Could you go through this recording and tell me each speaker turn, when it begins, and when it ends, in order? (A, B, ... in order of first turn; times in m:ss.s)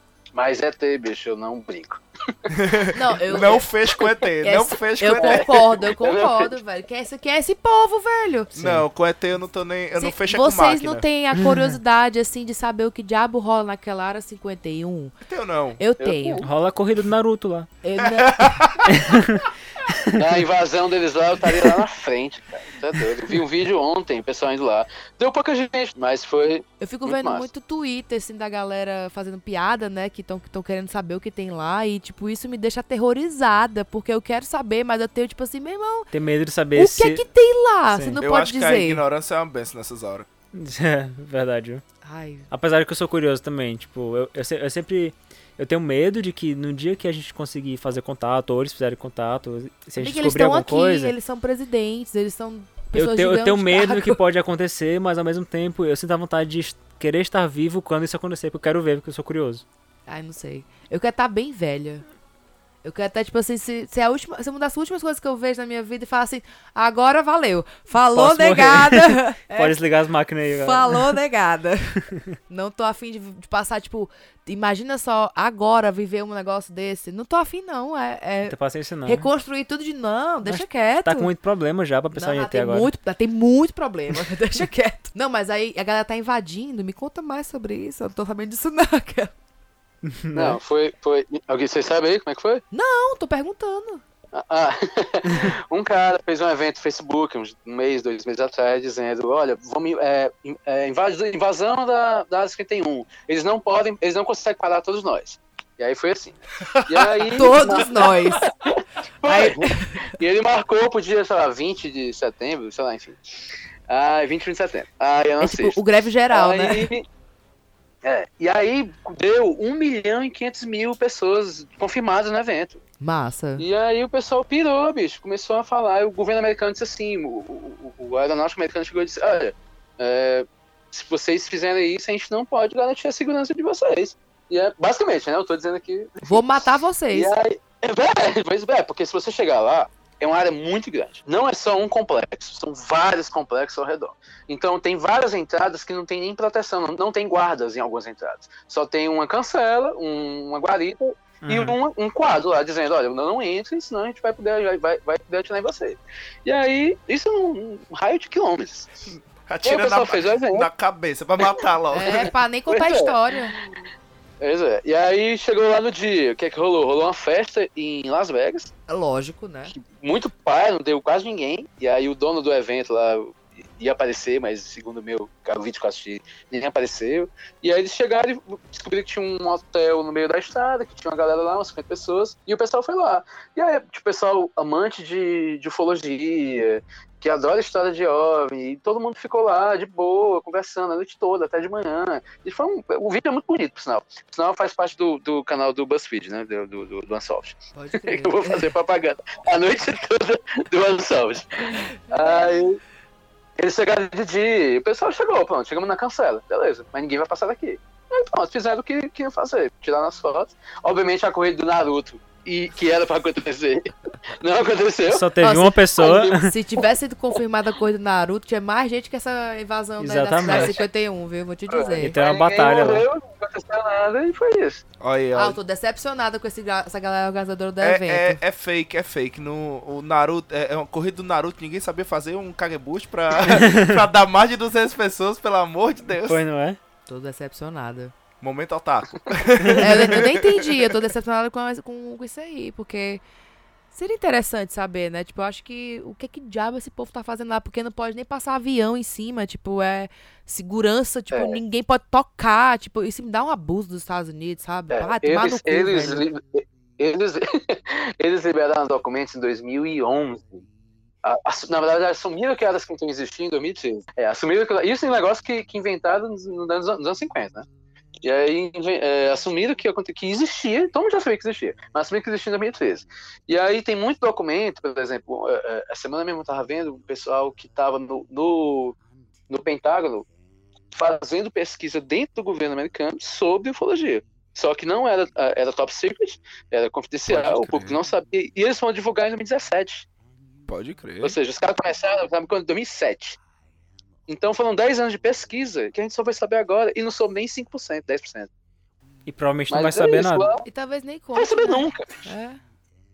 0:00.3-0:02.6 A
0:02.5-0:05.5 B
0:02.9-0:03.7 C
0:03.3-0:03.6 A
0:04.4-0:08.5 C
0:05.1-0:06.5 A
0:08.5-0:11.0 B
0:08.6-0:08.8 D
0:10.0-0:15.1 C
0:15.2-0:15.8 B
0:15.8-0:16.4 C
0:16.0-0:16.5 A
0:16.4-0:17.7 D
0:17.8-0:18.6 C
0:18.0-0:19.9 B
0:18.9-0:19.5 D
0:20.1-0:27.5 A
0:26.8-0:36.1 C
0:36.1-0:37.2 D
0:36.7-0:39.0 C
0:37.9-0:38.2 D
0:38.2-0:40.3 B
0:40.5-0:41.8 D
0:42.0-0:42.5 C
0:42.5-0:51.1 D
0:50.0-0:54.2 C
0:52.9-0:59.6 D
1:00.1-1:02.0 C
1:02.8-1:09.8 C
1:08.1-1:11.2 D
1:10.5-1:21.3 C
1:18.5-1:19.3 D
1:20.4-1:22.9 D
1:22.1-1:29.3 C
1:30.0-1:30.6 D
1:30.3-1:32.6 A
1:32.7-1:34.0 C
1:34.3-1:53.2 A
1:46.7-1:47.2 B
1:47.3-1:48.4 C
1:49.2-1:50.1 C
1:53.9-1:57.1 A
1:55.4-1:56.9 C
1:58.0-2:02.8 A
2:03.0-2:03.6 C
2:03.6-2:16.6 A
2:16.2-2:17.3 C
2:17.1-2:38.9 A
2:31.4-2:31.8 D
2:39.1-2:42.3 B
2:39.6-2:40.7 A
2:41.4-2:43.7 A
2:41.9-2:43.6 C
2:44.4-2:48.7 A
2:48.9-2:49.7 C
2:49.7-3:22.8 A
3:17.7-3:18.7 C
3:21.8-3:22.4 C
3:23.6-3:35.3 A
3:35.1-3:36.5 D
3:35.4-3:42.2 C
3:36.0-3:36.8 A
3:40.0-3:40.8 D
3:40.4-3:40.8 A
3:41.7-3:44.8 A
3:42.0-3:43.0 D
3:45.0-3:45.6 B
3:45.3-3:48.4 C
3:47.8-3:56.4 B
3:53.5-3:53.9 D
3:56.2-3:56.8 D
3:57.1-3:58.1 C
3:58.4-4:00.9 B
3:59.8-4:03.2 C
4:03.9-4:16.3 C
4:11.3-4:11.6 A
4:14.9-4:20.6 A
4:21.2-4:27.7 A
4:28.2-4:39.0 A
4:39.5-4:40.3 A
4:40.9-4:50.1 A
4:47.3-4:48.0 B
4:50.7-4:51.4 B
4:51.2-4:53.4 A
4:54.3-4:58.5 A
4:59.2-5:00.5 D
4:59.7-5:00.6 A
5:00.6-5:02.6 C
5:01.3-5:02.3 A